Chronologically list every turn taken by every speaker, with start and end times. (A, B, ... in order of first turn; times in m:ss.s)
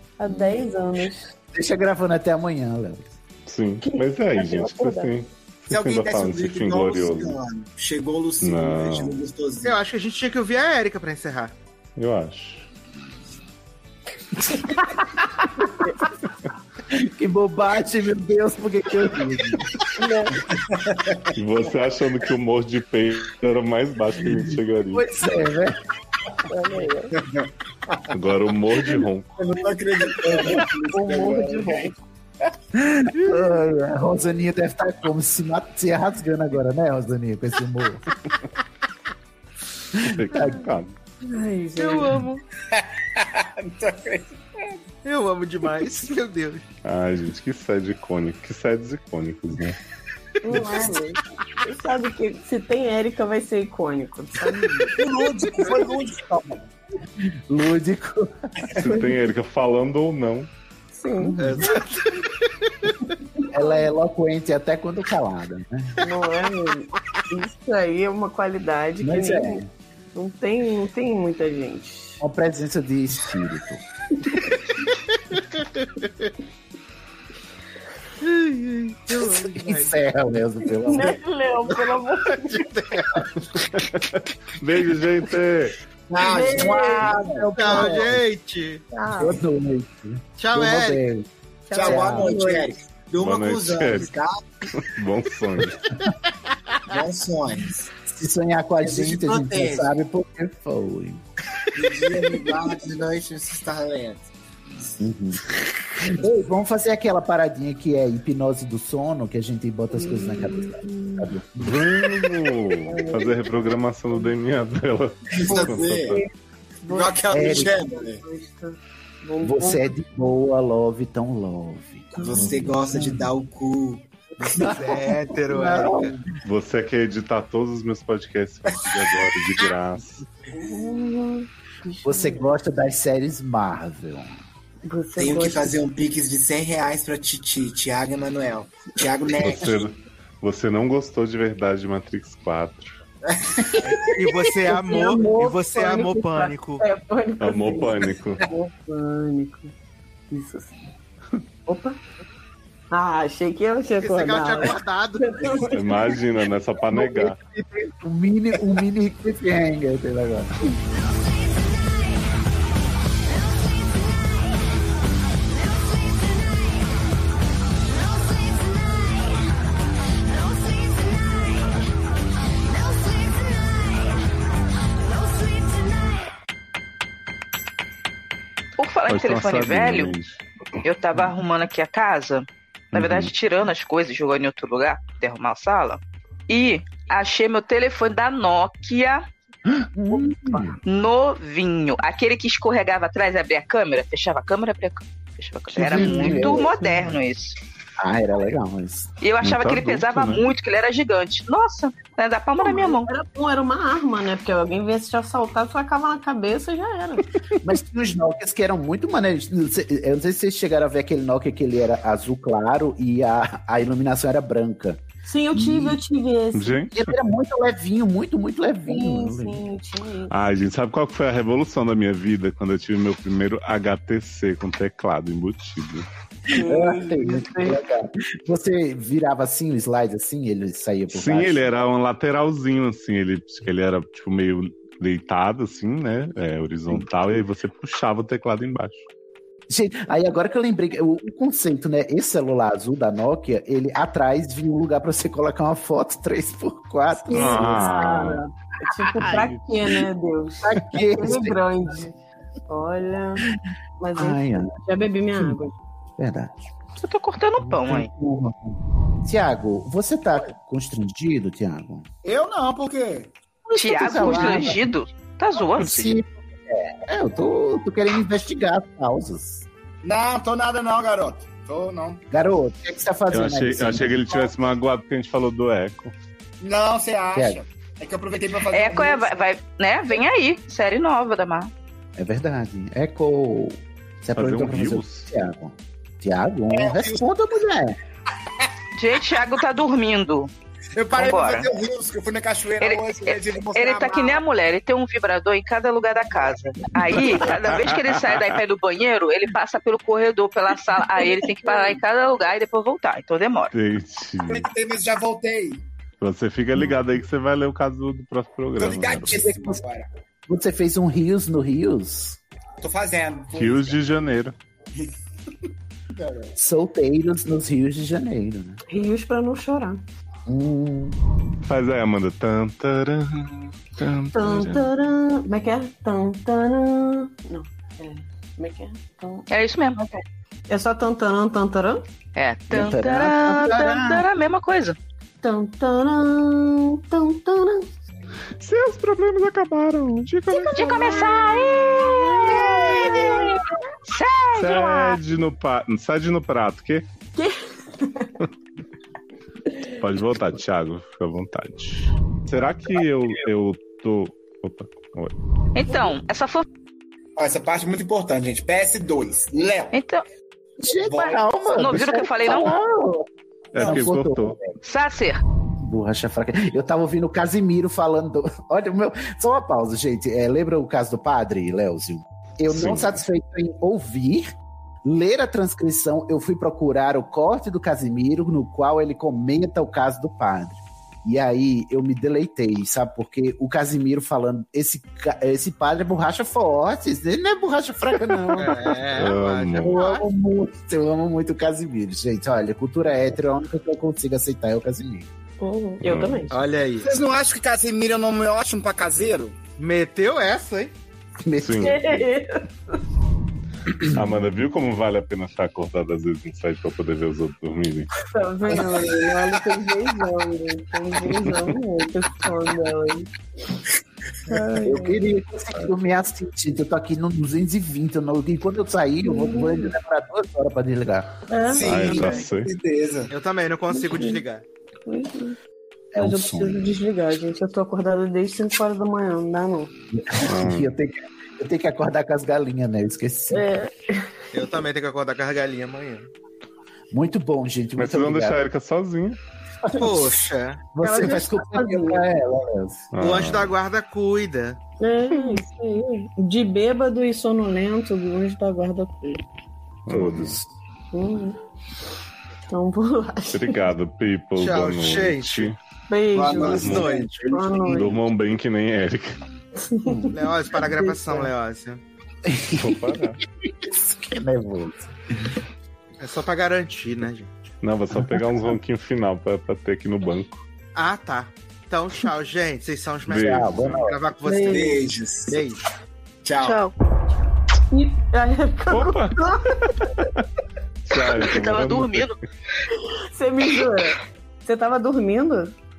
0:00.2-0:01.4 A
0:01.5-0:03.1 B
0:03.5-0:07.4 C
0:03.8-0:05.2 A
0:05.7-0:09.8 D
0:08.4-0:09.2 C
0:09.6-0:11.5 E
0:12.0-0:12.7 C
0:15.7-0:16.0 A
0:16.9-0:19.7 B
0:20.0-0:20.4 A
0:20.7-0:21.3 D
0:21.4-0:25.0 C
0:24.9-0:25.8 B
0:26.5-0:27.1 A
0:27.2-0:28.1 D
0:28.1-0:29.3 C
0:29.4-0:31.9 D
0:30.2-0:32.0 A
0:32.8-0:38.0 B
0:40.1-0:40.9 C
0:40.3-0:40.7 B
0:41.2-0:42.2 A
0:41.8-0:42.4 E
0:42.7-0:44.8 D
0:45.0-0:46.6 E
0:46.8-0:49.8 C
0:50.4-0:55.1 A
0:55.0-0:56.7 D
0:57.5-0:58.7 B
0:58.7-1:00.5 C
1:00.9-1:01.7 A
1:01.2-1:01.8 B
1:01.4-1:02.2 E
1:03.4-1:03.9 A
1:03.5-1:05.9 B
1:06.0-1:12.2 A
1:09.0-1:09.7 B
1:12.2-1:13.8 B
1:18.2-1:20.0 E
1:19.4-1:21.2 B
1:20.7-1:22.8 A
1:23.7-1:25.8 C
1:26.1-1:27.8 D
1:26.2-1:28.1 A
1:26.6-1:28.2 B
1:27.6-1:28.8 E
1:28.9-1:29.4 A
1:29.2-1:31.3 B
1:30.4-1:31.0 E
1:31.7-1:32.7 A
1:31.7-1:34.5 D
1:31.8-1:32.3 B
1:33.2-1:34.1 C
1:34.8-1:36.0 C
1:36.9-1:37.9 D
1:38.1-1:41.2 B
1:38.8-1:39.9 D
1:41.8-1:44.3 D
1:45.0-1:45.4 B
1:46.0-1:51.9 B
1:49.9-1:51.3 A
1:51.6-1:56.2 C
1:52.9-1:54.2 A
1:55.3-1:56.2 D
1:55.5-1:56.3 A
1:56.8-2:00.0 A
1:56.9-1:58.2 D
1:57.3-1:57.7 B
1:59.4-2:03.3 B
2:02.2-2:02.5 A
2:02.2-2:05.0 D
2:04.6-2:06.2 B
2:04.6-2:06.1 E
2:06.4-2:10.2 C
2:10.5-2:12.5 A
2:12.0-2:14.4 B
2:14.8-2:15.8 A
2:15.2-2:19.8 D
2:19.4-2:23.0 C
2:23.3-2:24.1 D
2:23.8-2:26.8 E
2:23.8-2:29.7 A
2:27.4-2:28.4 C
2:30.3-2:30.8 A
2:31.7-2:32.0 A
2:32.9-2:36.3 A
2:34.0-2:35.8 E
2:35.7-2:37.4 C
2:36.9-2:40.6 B
2:58.8-3:00.2 F
2:59.1-3:00.4 C
3:00.8-3:09.2 F
3:02.9-3:03.3 C
3:09.7-3:10.8 B
3:10.3-3:10.6 A
3:10.8-3:17.6 F
3:15.7-3:17.1 B
3:18.0-3:19.1 B
3:19.2-3:23.1 F
3:19.4-3:20.4 C
3:22.6-3:27.3 A
3:27.6-3:35.0 B
3:35.2-3:36.8 A
3:35.5-3:36.0 B
3:36.5-3:37.1 C
3:36.9-3:39.6 B
3:38.9-3:40.3 A
3:40.3-3:46.1 C
3:46.5-3:47.8 A
3:46.6-3:51.7 B
3:51.1-3:59.0 C
3:59.7-4:08.2 B
4:07.2-4:12.2 A
4:07.3-4:08.4 C
4:10.6-4:11.6 B
4:12.7-4:13.4 A
4:14.0-4:15.8 A
4:14.2-4:14.8 B
4:16.2-4:16.6 B
4:17.0-4:18.1 F
4:17.6-4:22.1 B
4:22.2-4:23.3 D
4:23.8-4:24.7 A
4:23.8-4:26.2 F
4:23.8-4:24.8 B
4:25.8-4:29.7 B
4:30.0-4:32.2 D
4:32.3-4:34.4 B
4:33.3-4:36.1 C
4:36.6-4:39.5 D
4:37.3-4:37.6 B
4:38.7-4:41.7 F
4:42.2-4:48.0 B
4:44.4-4:45.2 C
4:46.7-4:47.2 D
4:49.0-4:50.5 F
4:51.0-4:54.4 D
4:51.1-4:51.7 F
4:52.8-5:03.7 F
4:57.6-4:58.4 C
5:03.7-5:04.7 C
5:04.5-5:05.8 D
5:06.2-5:09.3 C
5:08.8-5:10.1 D
5:09.1-5:09.8 B
5:10.5-5:12.4 B
5:12.8-5:14.0 D
5:13.5-5:14.6 C
5:16.2-5:16.5 D
5:16.6-5:18.8 B
5:18.9-5:20.0 A
5:20.5-5:21.2 B
5:21.6-5:24.8 C
5:24.3-5:32.0 A
5:29.5-5:30.0 F
5:32.4-5:35.0 F
5:32.7-5:34.3 B
5:35.4-5:37.9 A
5:38.6-5:43.3 C
5:40.5-5:45.2 F
5:44.5-5:47.1 C
5:47.4-5:48.3 A
5:50.0-5:55.3 C
5:55.8-5:56.6 F
5:57.4-6:00.0 D
5:59.9-6:00.2 F
6:00.8-6:04.7 B
6:01.0-6:01.4 D
6:01.7-6:02.7 F
6:03.7-6:04.6 C
6:04.8-6:05.4 F
6:05.8-6:14.5 B
6:12.7-6:13.2 C
6:15.0-6:29.1 B
6:28.5-6:30.3 E
6:29.2-6:30.0 C
6:29.8-6:35.3 B
6:35.6-6:36.6 A
6:36.0-6:36.5 C
6:36.5-6:37.1 E
6:37.0-6:39.6 D
6:39.8-6:40.9 E
6:41.4-6:42.3 B
6:41.6-6:42.0 C
6:41.8-6:42.6 A
6:44.1-6:48.1 C
6:48.2-6:53.3 A
6:48.7-6:49.6 D
6:54.5-6:55.2 A
6:54.8-7:01.3 B
6:59.2-7:00.0 A
7:01.5-7:02.4 A
7:01.7-7:03.3 D
7:01.8-7:02.7 C
7:03.3-7:04.6 E
7:03.9-7:04.4 A
7:05.1-7:05.6 A
7:06.1-7:06.9 B
7:06.2-7:09.9 A
7:10.1-7:13.7 B
7:10.4-7:10.9 C
7:13.5-7:14.3 A
7:14.5-7:16.3 E
7:17.1-7:18.6 B
7:18.0-7:19.4 C
7:19.9-7:20.3 B
7:20.0-7:20.8 E
7:21.0-7:23.1 B
7:21.0-7:22.3 A
7:23.1-7:23.8 C
7:23.2-7:24.8 E
7:25.0-7:29.4 A
7:30.1-7:30.6 C
7:30.1-7:30.7 B
7:31.1-7:31.6 A
7:32.7-7:33.9 A
7:33.5-7:35.8 C
7:34.6-7:35.7 E
7:36.1-7:38.2 A
7:36.3-7:37.3 D
7:36.7-7:37.3 E
7:36.8-7:37.1 C
7:37.5-7:38.0 B
7:37.9-7:39.4 C
7:39.8-7:41.4 A
7:40.1-7:40.4 B
7:40.3-7:42.0 E
7:42.5-7:43.0 B
7:42.7-7:43.4 C
7:43.6-7:45.1 B
7:46.2-7:47.5 E
7:47.8-7:50.6 C
7:48.1-7:48.7 B
7:51.0-7:55.0 E
7:53.3-7:54.1 C
7:53.3-7:54.2 B
7:54.4-7:55.0 A
7:54.6-7:55.6 D
7:55.5-7:55.9 E
7:56.4-7:56.8 D
7:56.6-7:56.9 F
7:57.9-8:00.1 A
7:58.9-7:59.5 C
8:01.1-8:02.4 C
8:01.5-8:02.4 F
8:03.3-8:05.7 A